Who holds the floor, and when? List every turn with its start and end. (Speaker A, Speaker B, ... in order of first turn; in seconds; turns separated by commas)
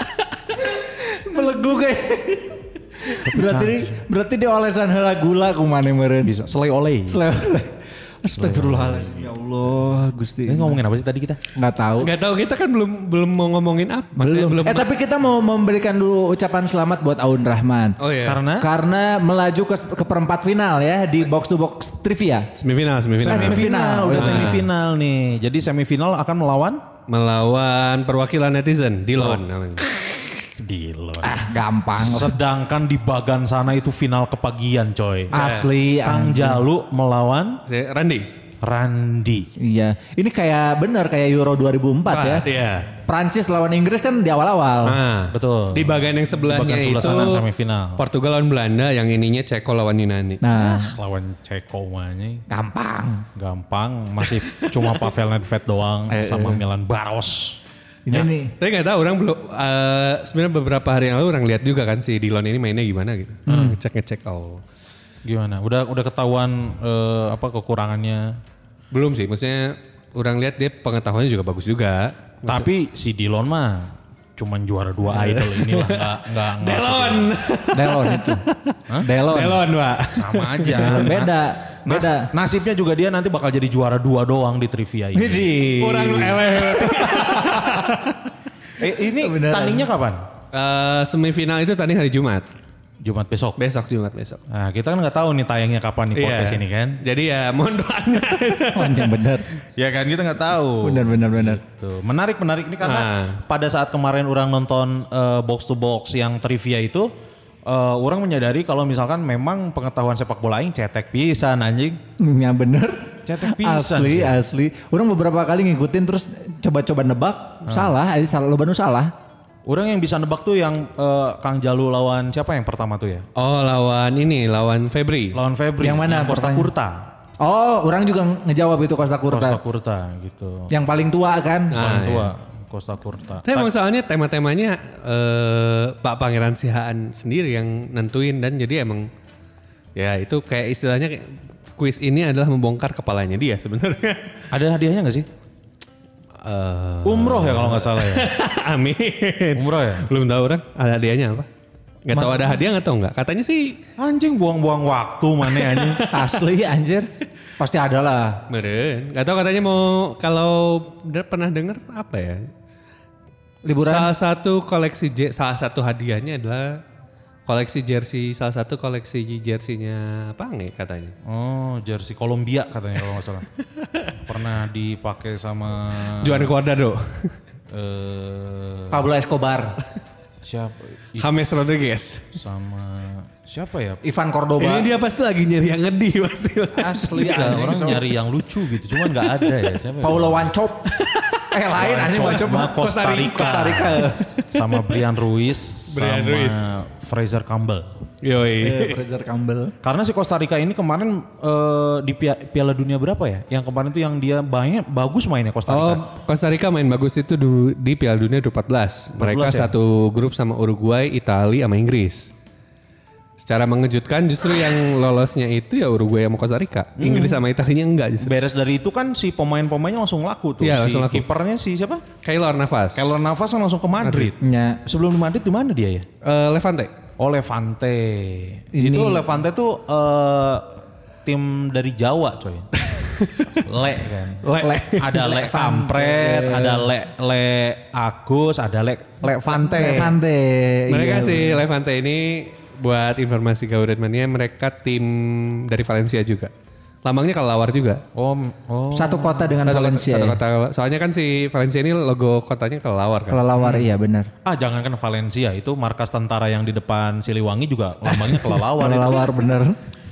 Speaker A: 0.9-6.3, Speaker B: 3.2-4.0, Speaker B: 6.2-7.2, Speaker A: 7.1-10.8, Speaker B: 8.3-11.4, Speaker A: 11.6-12.1, Speaker C: 12.0-14.9, Speaker A: 14.2-18.0, Speaker C: 18.0-18.4, Speaker B: 18.2-18.7, Speaker A: 18.6-22.5, Speaker C: 22.6-24.7, Speaker A: 23.2-24.6, Speaker B: 23.2-26.8, Speaker C: 27.1-29.9, Speaker B: 29.2-31.4, Speaker A: 31.2-32.4, Speaker B: 32.0-35.4, Speaker A: 35.3-36.6, Speaker C: 35.3-35.7, Speaker B: 36.0-37.6, Speaker C: 37.7-38.3, Speaker B: 38.6-39.5, Speaker A: 39.6-42.4, Speaker C: 42.1-42.9, Speaker A: 43.1-45.0, Speaker C: 44.8-47.5, Speaker B: 45.3-48.0, Speaker C: 48.0-50.4, Speaker A: 50.4-51.0, Speaker B: 50.5-52.4, Speaker A: 52.5-53.2, Speaker B: 53.4-57.6, Speaker C: 54.2-55.1, Speaker C: 56.1-56.6, Speaker A: 58.1-58.5, Speaker C: 58.1-64.6, Speaker A: 63.5-63.8, Speaker B: 63.5-63.8, Speaker B: 65.2-68.4, Speaker C: 68.9-72.7, Speaker B: 72.5-77.4, Speaker C: 75.1-78.4, Speaker A: 77.7-78.5, Speaker A: 79.0-79.6, Speaker C: 79.3-81.2, Speaker B: 80.1-85.5, Speaker A: 80.8-82.3, Speaker A: 85.2-88.0, Speaker C: 85.8-88.1, Speaker B: 88.8-90.2, Speaker A: 89.2-89.9, Speaker C: 90.5-92.5, Speaker B: 93.0-93.6, Speaker C: 93.6-94.4, Speaker B: 94.5-97.0, Speaker C: 96.2-99.1, Speaker A: 98.7-99.5, Speaker B: 99.8-107.1, Speaker A: 100.8-101.6, Speaker C: 102.8-103.4, Speaker B: 107.7-112.0, Speaker A: 112.2-119.1, Speaker B: 113.3-114.4, Speaker B: 117.7-117.9, Speaker B: 119.7-123.3, Speaker C: 123.4-125.4, Speaker B: 125.3-127.1, Speaker A: 125.8-126.7, Speaker A: 127.4-129.6, Speaker B: 129.3-130.7, Speaker A: 130.7-131.8, Speaker C: 131.7-132.3, Speaker B: 131.8-133.7, Speaker C: 133.5-139.1, Speaker C: 140.0-144.3, Speaker B: 144.5-145.3, Speaker C: 146.4-151.5, Speaker B: 147.0-148.3, Speaker B: 149.6-150.1, Speaker C: 152.1-153.8, Speaker A: 152.1-152.6, Speaker B: 154.0-156.0, Speaker C: 155.4-156.4, Speaker A: 156.1-157.1, Speaker A: 157.6-158.4, Speaker C: 158.5-162.5, Speaker A: 163.7-164.1, Speaker C: 163.8-166.8, Speaker C: 167.5-171.2, Speaker B: 171.2-173.5, Speaker B: 174.2-176.5, Speaker C: 176.1-177.4, Speaker B: 177.7-179.1, Speaker A: 178.9-179.8, Speaker B: 180.4-181.3, Speaker C: 181.2-182.3, Speaker B: 182.3-184.0, Speaker A: 184.0-184.9, Speaker C: 184.6-187.6, Speaker A: 186.8-188.0, Speaker B: 187.1-190.5, Speaker C: 189.1-189.6, Speaker A: 190.0-190.9, Speaker C: 190.9-195.0, Speaker A: 191.5-194.2, Speaker B: 191.8-197.9, Speaker C: 195.9-196.8, Speaker C: 198.2-199.0, Speaker A: 198.6-199.7, Speaker B: 199.8-206.1, Speaker C: 205.7-212.3, Speaker B: 209.2-209.7, Speaker C: 213.4-218.3, Speaker B: 217.0-217.4, Speaker B: 218.2-222.1, Speaker C: 220.6-221.2, Speaker C: 222.2-223.2, Speaker B: 222.9-226.1, Speaker C: 224.0-224.3, Speaker A: 224.4-224.8, Speaker C: 226.2-226.9, Speaker B: 227.2-232.7, Speaker A: 228.7-229.3, Speaker C: 232.8-233.5, Speaker B: 233.6-240.2, Speaker C: 234.4-235.3, Speaker A: 234.6-236.8, Speaker A: 239.5-241.6, Speaker C: 240.9-246.5, Speaker C: 247.0-248.0, Speaker B: 248.2-249.6, Speaker A: 248.9-250.4, Speaker C: 249.7-253.5, Speaker A: 253.3-254.3, Speaker B: 253.6-253.9, Speaker B: 254.4-259.3, Speaker A: 258.8-259.8